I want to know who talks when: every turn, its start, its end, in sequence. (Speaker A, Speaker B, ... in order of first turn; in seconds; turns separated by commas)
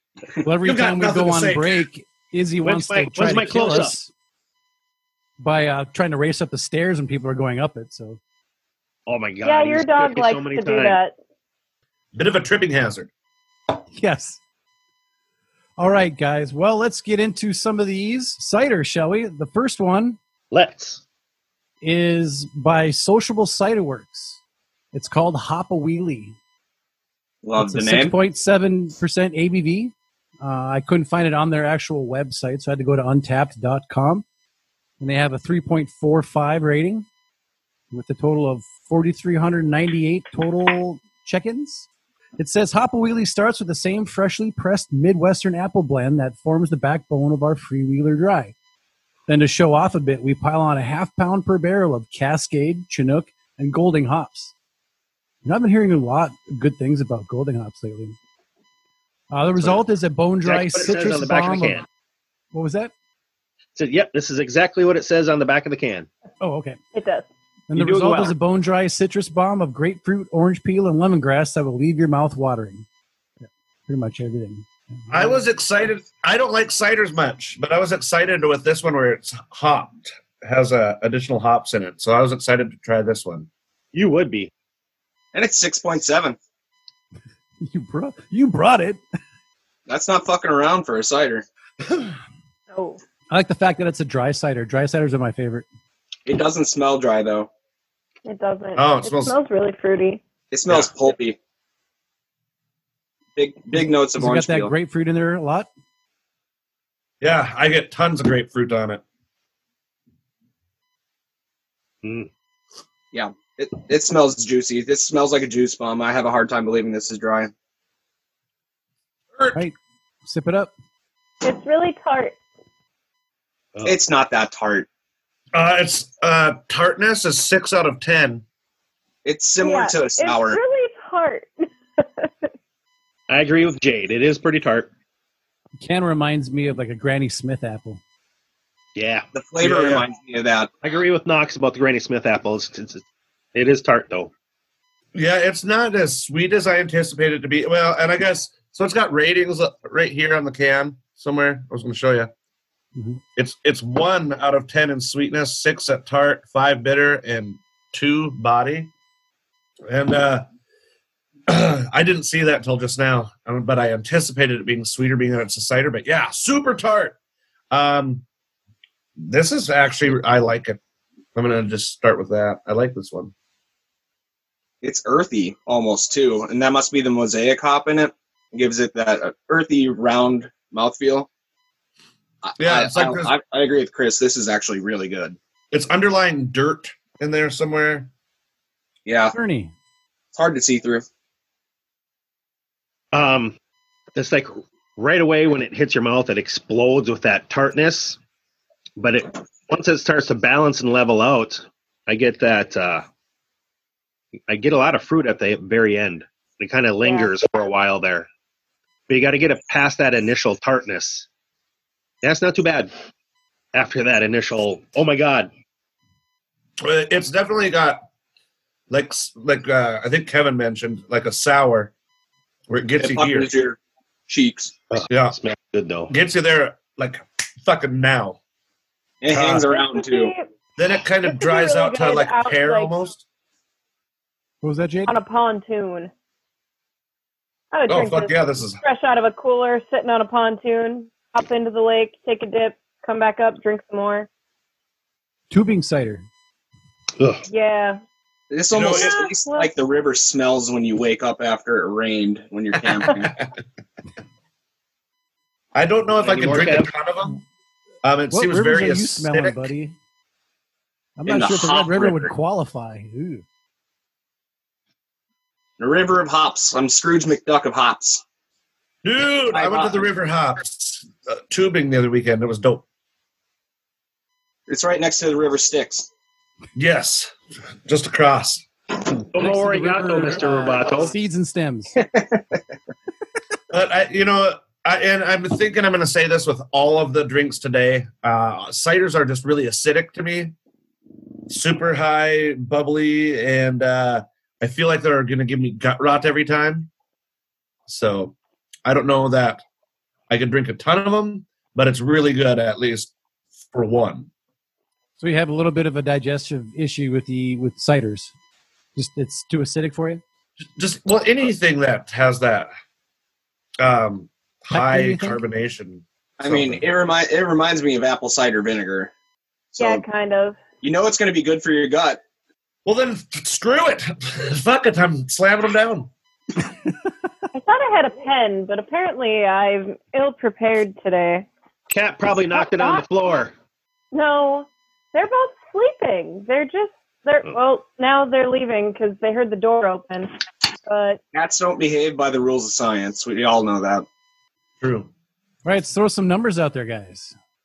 Speaker A: 0.4-4.1, Speaker B: 0.6-1.9, Speaker C: 2.6-4.0, Speaker A: 5.4-8.2, Speaker C: 9.1-11.0, Speaker D: 9.4-11.1, Speaker B: 12.1-13.1, Speaker A: 13.9-14.4, Speaker A: 15.8-20.2, Speaker C: 20.5-21.0, Speaker A: 21.8-24.4, Speaker A: 24.9-26.4, Speaker E: 27.4-28.1, Speaker A: 27.6-34.2, Speaker A: 35.0-37.1, Speaker A: 37.9-41.9, Speaker A: 42.4-48.5, Speaker A: 49.3-54.5, Speaker A: 55.4-58.2, Speaker A: 59.3-61.8, Speaker C: 60.4-61.9, Speaker A: 62.5-62.9, Speaker C: 63.8-66.1, Speaker A: 66.4-66.8, Speaker D: 67.0-67.3, Speaker A: 67.7-72.8, Speaker C: 67.7-68.4, Speaker A: 73.9-75.3, Speaker B: 75.1-83.5, Speaker C: 83.9-84.5, Speaker E: 85.3-86.4, Speaker A: 87.6-89.0, Speaker E: 89.9-91.5, Speaker D: 92.7-93.0, Speaker A: 93.3-95.7, Speaker E: 96.2-97.5, Speaker D: 98.2-100.2, Speaker B: 98.8-99.3, Speaker E: 100.5-101.4, Speaker E: 103.4-104.7, Speaker A: 103.8-105.7, Speaker B: 107.2-109.0, Speaker C: 112.0-112.3, Speaker E: 113.1-117.5, Speaker A: 120.2-120.7, Speaker D: 121.4-122.4, Speaker E: 123.8-124.9, Speaker B: 125.5-128.4, Speaker E: 129.2-130.6, Speaker D: 129.6-132.3, Speaker C: 133.3-134.9, Speaker A: 135.8-138.0, Speaker C: 138.9-139.9, Speaker E: 139.3-140.7, Speaker B: 139.6-140.0, Speaker C: 140.8-143.0, Speaker C: 143.5-144.3, Speaker B: 145.1-152.3, Speaker B: 153.4-158.9, Speaker B: 159.9-160.5, Speaker B: 161.5-167.2, Speaker B: 167.7-168.2, Speaker B: 169.2-170.8, Speaker B: 171.3-173.3, Speaker E: 174.8-181.3, Speaker E: 182.4-185.4, Speaker B: 182.6-183.3, Speaker B: 185.7-188.1, Speaker E: 189.1-189.3, Speaker A: 189.3-189.7, Speaker E: 190.3-191.1, Speaker C: 193.1-193.6, Speaker C: 194.1-198.2, Speaker C: 199.0-203.1, Speaker C: 204.5-208.3, Speaker C: 209.1-211.2, Speaker C: 212.2-212.9, Speaker C: 213.7-215.5, Speaker B: 216.8-218.0, Speaker B: 218.9-221.9, Speaker B: 222.7-223.5, Speaker E: 223.0-223.8, Speaker E: 224.3-224.7, Speaker C: 224.9-226.1, Speaker B: 225.1-225.4, Speaker B: 226.1-228.4, Speaker E: 229.2-230.3, Speaker B: 229.3-229.7, Speaker D: 229.7-230.4, Speaker B: 230.8-233.2, Speaker D: 231.2-233.0, Speaker A: 234.6-235.1, Speaker D: 235.1-236.1, Speaker D: 237.7-244.3, Speaker B: 237.9-238.8, Speaker A: 245.5-246.2, Speaker C: 247.2-247.4, Speaker D: 247.5-248.0, Speaker E: 248.5-253.3, Speaker B: 248.7-249.2, Speaker D: 248.8-249.7, Speaker B: 255.7-257.4, Speaker C: 256.2-256.9, Speaker B: 258.0-259.7, Speaker A: 258.3-259.9, Speaker A: 261.2-263.4, Speaker E: 261.3-262.3, Speaker E: 265.8-268.2, Speaker B: 269.0-272.8, Speaker E: 269.5-270.1, Speaker E: 274.7-276.1, Speaker B: 276.8-277.3, Speaker B: 277.9-278.6, Speaker C: 279.3-281.1, Speaker A: 279.4-282.0, Speaker E: 282.0-282.6, Speaker B: 283.7-290.5, Speaker B: 291.5-296.9, Speaker B: 297.9-299.6, Speaker B: 300.3-303.1, Speaker B: 303.7-304.3, Speaker A: 305.2-308.3, Speaker A: 309.0-310.2, Speaker B: 310.8-312.7, Speaker B: 313.8-316.9, Speaker A: 314.7-315.4, Speaker E: 316.4-319.1, Speaker E: 319.7-320.0, Speaker D: 319.8-320.6, Speaker E: 320.8-322.2, Speaker B: 322.9-326.1, Speaker D: 327.5-331.5, Speaker C: 331.9-333.5, Speaker D: 332.5-333.0, Speaker D: 334.1-340.3, Speaker D: 340.9-341.2, Speaker E: 341.3-344.1, Speaker B: 344.8-345.1, Speaker A: 345.6-347.4